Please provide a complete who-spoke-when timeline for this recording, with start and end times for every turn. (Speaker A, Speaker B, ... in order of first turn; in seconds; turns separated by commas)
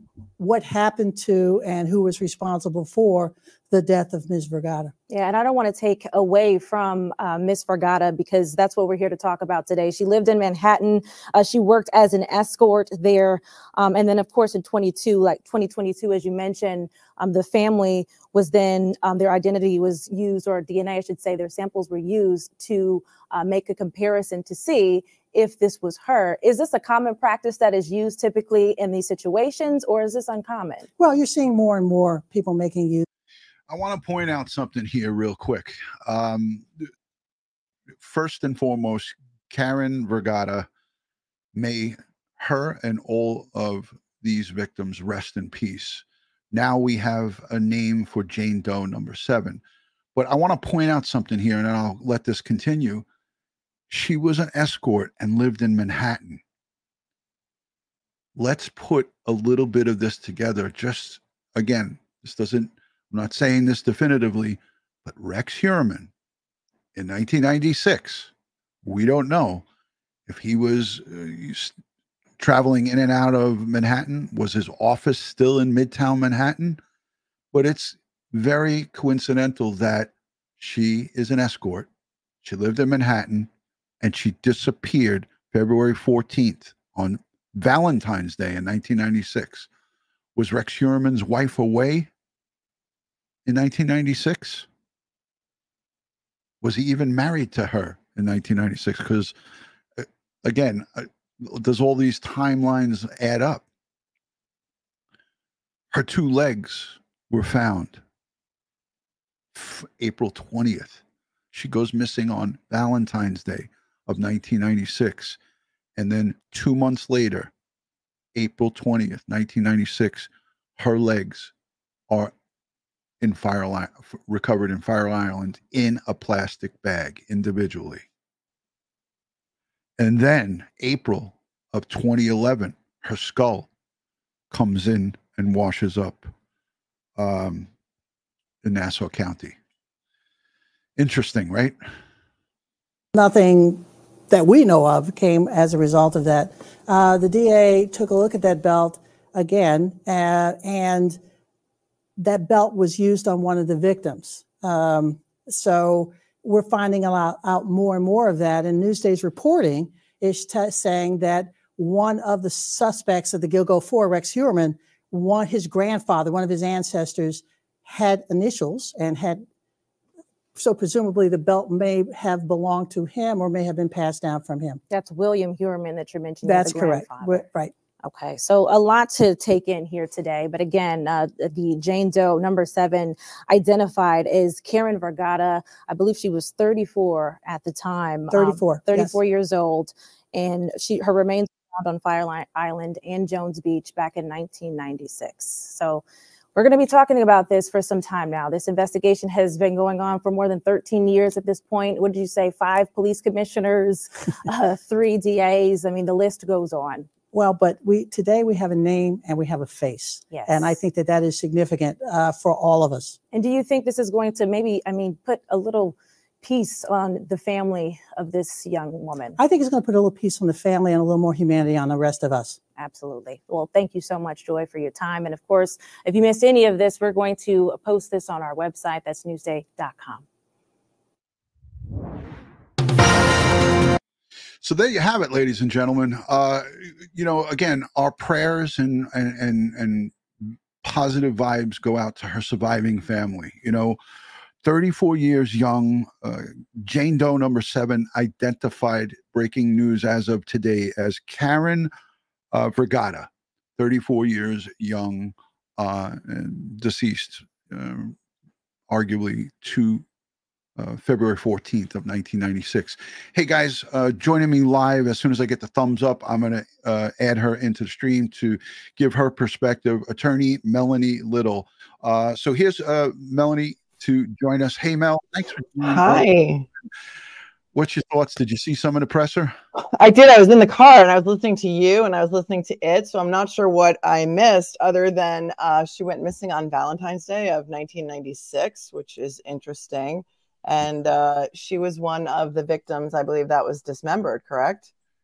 Speaker A: 0.4-4.9, Speaker B: 5.1-30.9, Speaker A: 31.0-33.0, Speaker C: 33.7-36.9, Speaker C: 38.0-40.7, Speaker C: 41.5-49.6, Speaker C: 50.1-53.1, Speaker C: 53.9-56.4, Speaker C: 58.4-66.1, Speaker C: 66.9-68.3, Speaker C: 68.8-69.6, Speaker C: 70.3-71.8, Speaker C: 72.4-76.8, Speaker C: 77.5-81.9, Speaker C: 82.4-83.5, Speaker C: 84.0-89.7, Speaker C: 90.4-92.1, Speaker C: 93.5-94.7, Speaker C: 96.6-99.3, Speaker C: 100.0-103.6, Speaker C: 105.9-108.0, Speaker C: 109.5-115.4, Speaker C: 116.0-117.5, Speaker C: 118.3-121.5, Speaker C: 123.2-128.1, Speaker C: 130.0-133.7, Speaker C: 134.5-136.3, Speaker C: 137.2-137.7, Speaker C: 138.6-139.6, Speaker C: 141.0-141.8, Speaker A: 143.1-151.2, Speaker A: 152.2-169.4, Speaker A: 170.6-174.8, Speaker B: 174.9-177.4, Speaker A: 176.4-177.7, Speaker B: 178.0-196.0, Speaker A: 188.3-189.2, Speaker B: 196.6-207.1, Speaker A: 207.3-213.2, Speaker B: 210.3-210.8, Speaker B: 213.3-219.4, Speaker A: 219.4-222.6, Speaker B: 222.8-230.2, Speaker C: 234.6-240.2, Speaker C: 240.8-244.0, Speaker C: 244.6-251.9, Speaker C: 252.5-258.2, Speaker C: 258.9-260.1, Speaker C: 260.8-276.3, Speaker D: 275.8-276.7, Speaker C: 277.7-279.5, Speaker D: 279.9-294.9